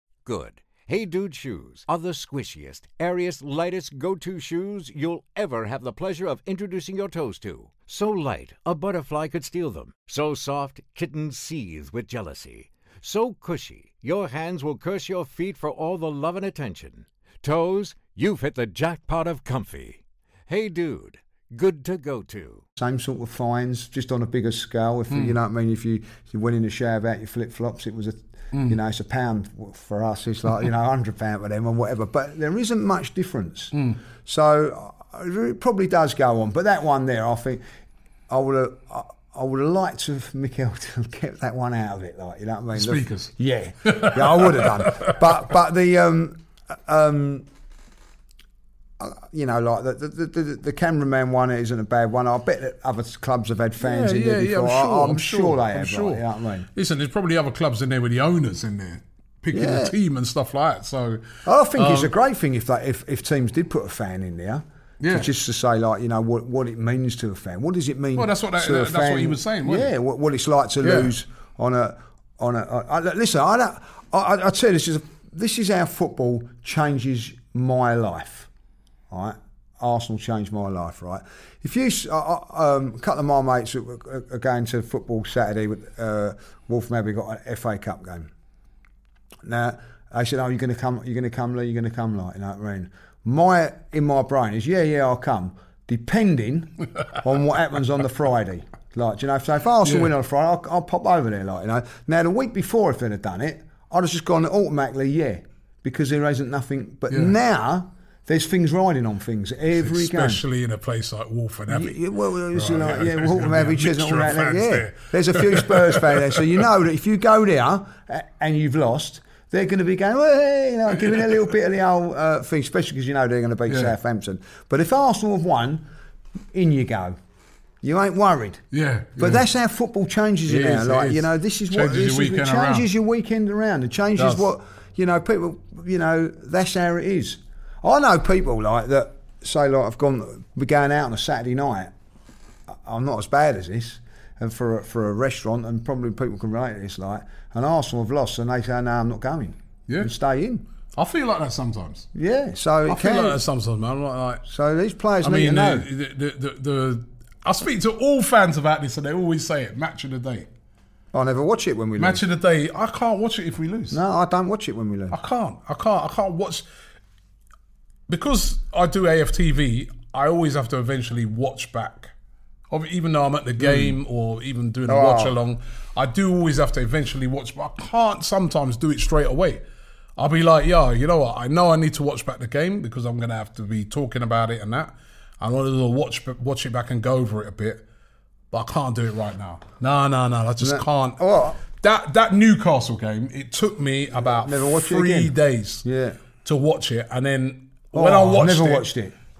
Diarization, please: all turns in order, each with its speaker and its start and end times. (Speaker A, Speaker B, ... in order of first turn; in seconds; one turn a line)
Speaker A: 0.2-22.6
Speaker B: 22.8-37.6
Speaker B: 38.3-47.5
Speaker C: 42.7-43.3
Speaker C: 43.8-45.2
Speaker B: 49.0-56.7
Speaker C: 53.8-62.1
Speaker B: 59.5-59.9
Speaker B: 61.4-78.5
Speaker C: 65.0-65.3
Speaker C: 68.1-69.9
Speaker C: 70.8-71.1
Speaker B: 79.1-88.3
Speaker B: 89.4-110.4
Speaker C: 99.8-100.1
Speaker C: 109.8-112.0
Speaker B: 111.7-125.9
Speaker C: 112.5-116.4
Speaker C: 123.7-123.9
Speaker B: 126.5-127.2
Speaker B: 127.8-128.6
Speaker C: 128.7-129.4
Speaker B: 129.2-141.9
Speaker C: 130.5-132.9
Speaker C: 134.2-134.5
Speaker B: 142.7-150.7
Speaker C: 150.9-152.1
Speaker B: 152.1-153.4
Speaker C: 152.9-154.4
Speaker B: 154.4-155.9
Speaker C: 155.2-160.5
Speaker B: 161.1-162.2
Speaker C: 162.0-164.0
Speaker B: 163.9-165.2
Speaker C: 165.1-166.6
Speaker C: 168.1-172.1
Speaker C: 172.7-179.6
Speaker B: 173.6-173.9
Speaker B: 174.9-175.4
Speaker C: 180.2-187.8
Speaker C: 188.5-195.9
Speaker B: 190.6-191.6
Speaker B: 194.1-196.2
Speaker C: 196.4-198.8
Speaker B: 197.9-199.1